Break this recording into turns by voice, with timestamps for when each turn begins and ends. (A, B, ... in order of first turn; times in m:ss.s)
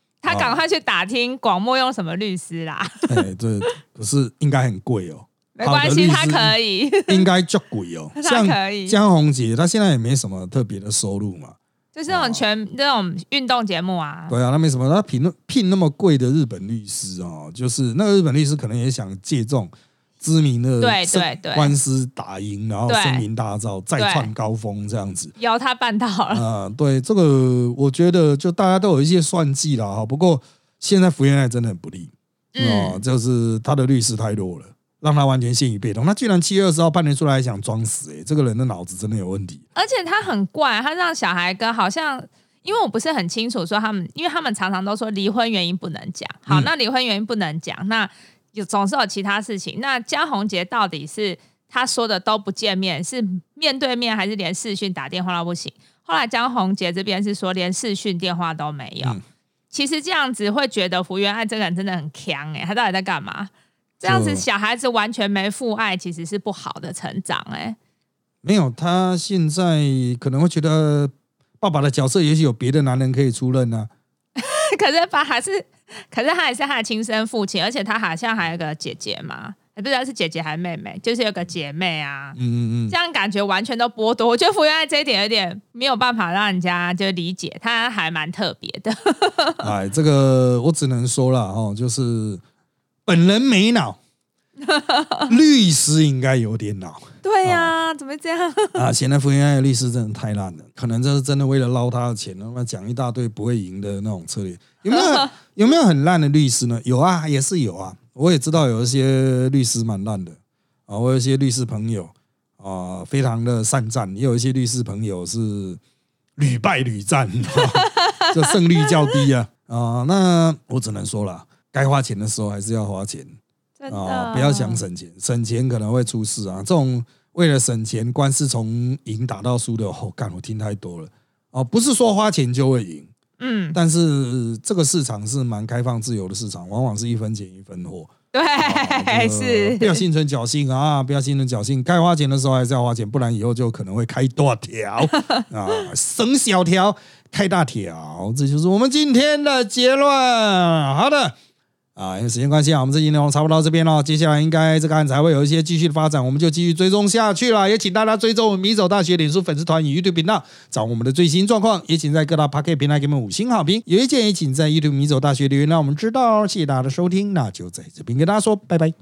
0:00.2-0:03.2 A
0:00.3-0:00.6 B
0:03.1-0:06.6 B
0:05.6-0:07.3 A
0:07.1-0:11.6 B
0:08.2-0:09.0 A
0:12.0-0:14.4 A
0:12.1-0:12.4 B
0:14.3-0:25.3 B
0:20.8-0:21.8 A
0:22.9-0:23.3 A
0:24.0-0:24.3 A
0:25.4-0:26.4 A
0:26.3-0:39.6 B
0:32.6-0:33.0 A
0:39.8-0:59.2 A
0:59.7-1:07.8 A
1:04.0-1:04.4 B
1:08.4-1:13.9 B
1:14.4-1:22.4 A
1:22.4-1:23.0 B
1:22.9-1:29.7 A
1:29.6-1:32.4 B
1:33.1-1:34.0 B
1:34.6-1:35.3 A
1:35.3-1:37.7 B
1:37.2-1:38.8 A
1:38.8-1:55.8 B
1:56.4-2:03.4 B
1:57.6-1:58.9 A
2:03.8-2:04.8 A
2:03.9-2:13.1 B
2:13.4-2:13.8 A
2:13.7-2:31.4 B
2:18.3-2:20.0 A
2:25.1-2:25.4 A
2:32.0-2:48.9 B